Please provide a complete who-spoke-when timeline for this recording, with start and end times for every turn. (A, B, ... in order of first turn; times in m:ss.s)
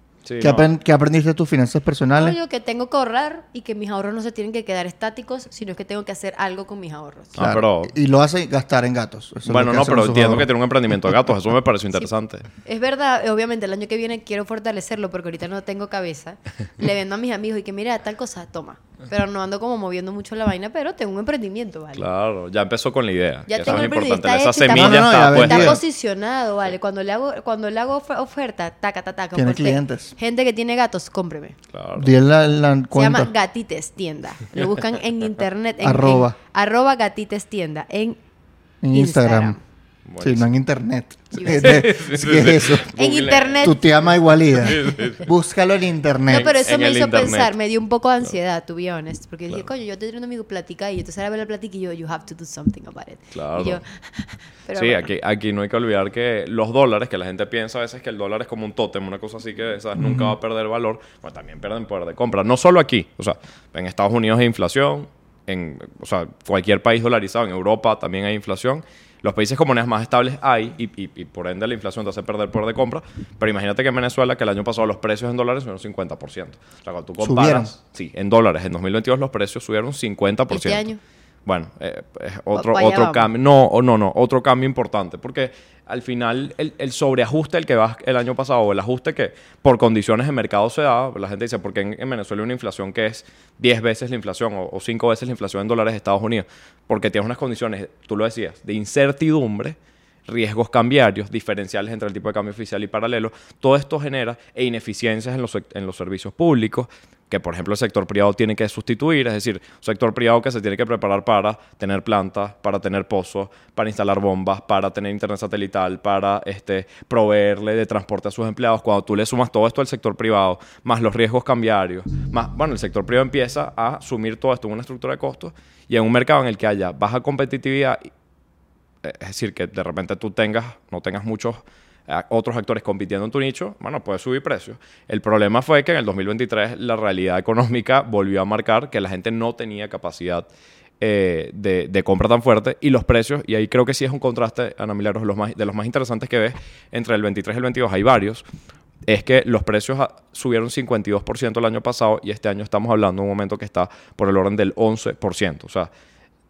0:00.2-0:00.7 A
0:00.4-0:02.4 B
0:02.1-0:07.4 C
0:07.4-0:08.0 A
0:07.4-0:10.5 B
0:09.4-0:12.5 A
0:12.6-0:22.1 C
0:21.9-0:25.8 A
0:23.5-0:31.6 C
0:24.7-0:25.8 B
0:29.4-0:30.1 B
0:31.7-0:32.1 A
0:32.0-0:33.3 B
0:32.9-0:38.2 C
0:35.8-0:36.4 B
0:38.8-0:39.6 B
0:38.9-0:39.6 C
0:40.1-0:40.5 A
0:40.2-0:42.9 B
0:41.4-0:41.8 C
0:41.4-0:43.8 A
0:42.9-0:43.9 C
0:43.6-0:46.5 B
0:44.5-0:45.3 A
0:44.7-0:45.1 C
0:46.3-0:47.5 A
0:46.3-0:55.1 C
0:53.3-0:53.8 A
0:54.8-1:20.9 A
1:00.0-1:00.3 B
1:17.2-1:17.7 B
1:20.5-1:21.0 C
1:21.5-2:08.1 A
1:22.6-1:23.3 C
2:09.0-2:20.5 A
2:21.0-2:28.4 A
2:29.1-2:35.9 A